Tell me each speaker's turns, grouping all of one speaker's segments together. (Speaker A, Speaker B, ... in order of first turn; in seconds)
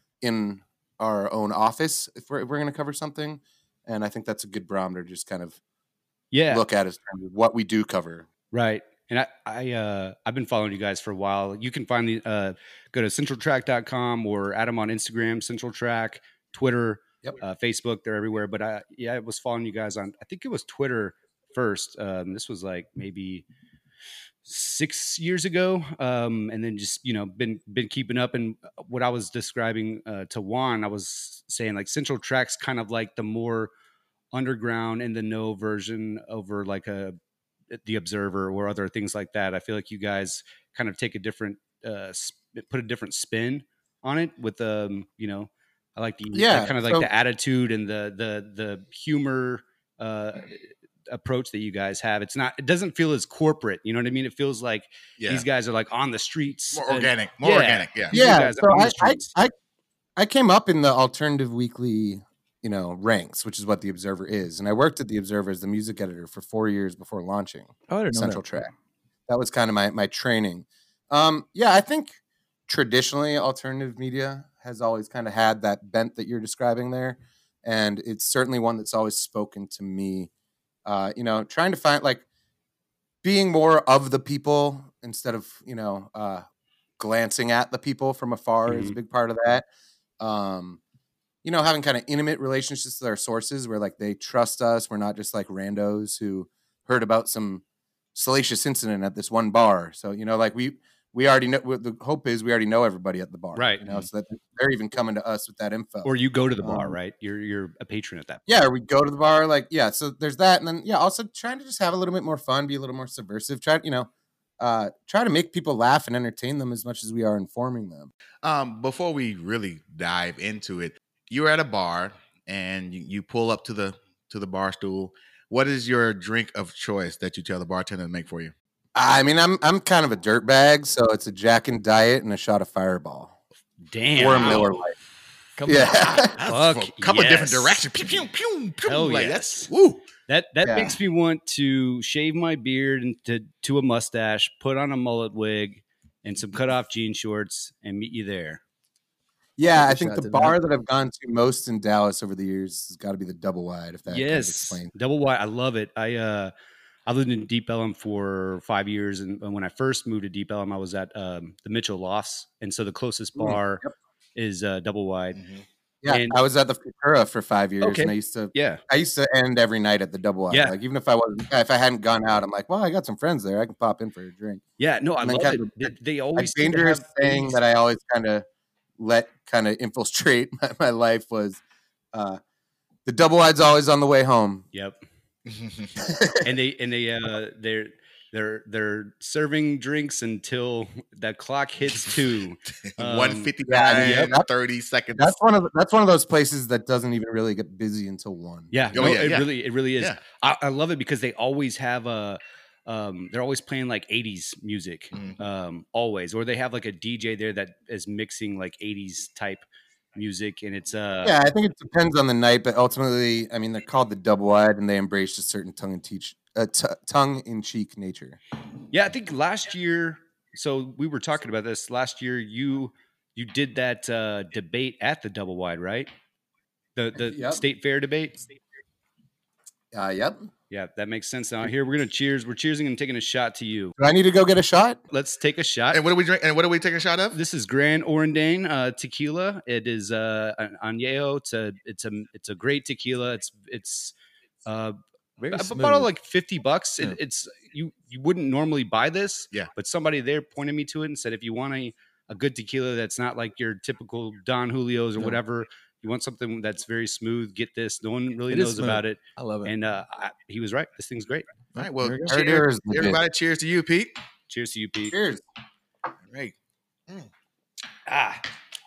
Speaker A: 0.2-5.6, 6.5-8.3, 46.3-47.1, 58.1-59.5, 60.2-68.7, 69.3-72.2, 72.7-80.3, 80.8-82.2, 83.2-86.5, 87.0-89.7, 90.2-90.8, 91.4-97.6, 98.1-107.0, 108.5-114.1, 114.6-118.1, 128.9-133.3, 134.2-134.9, 135.7-136.3, 140.6-141.0, 149.6-154.9, 163.4-163.9, 166.0-174.6, 175.2-178.4, 179.0-181.6, 182.1-182.4, 183.1-184.7, 186.0-186.5, 193.7-194.5, 195.2-198.7, 211.2-218.4, 227.3-227.6, 229.9-230.5, 234.0-235.0, 262.3-263.2, 265.1-265.4
Speaker B: 6.3-6.6, 8.5-23.4, 24.4-33.7, 34.3-37.2, 37.7-59.3, 88.7-89.0, 103.5-103.8, 106.0-108.4, 133.9-134.7, 136.4-137.8, 138.8-139.7, 140.3-148.6, 154.1-156.5, 157.1-163.8, 164.3-165.4, 166.1-166.4, 167.8-168.8, 170.5-170.8, 174.8-177.6, 186.4-194.3, 198.7-211.3, 218.9-226.1, 226.9-228.4, 230.7-233.9, 235.1-236.0, 237.3-244.1, 244.6-261.4, 264.5-265.1, 268.1-268.4
Speaker C: 55.2-55.4, 56.7-58.2, 118.4-128.5, 134.3-134.7, 136.1-140.0, 165.3-165.6, 185.5-185.9, 192.8-195.3, 198.9-200.2, 205.1-205.4, 235.9-237.4, 261.8-264.1
Speaker D: 67.9-68.4, 135.6-136.2, 149.7-150.6, 245.4-246.1, 258.5-259.7, 261.7-262.3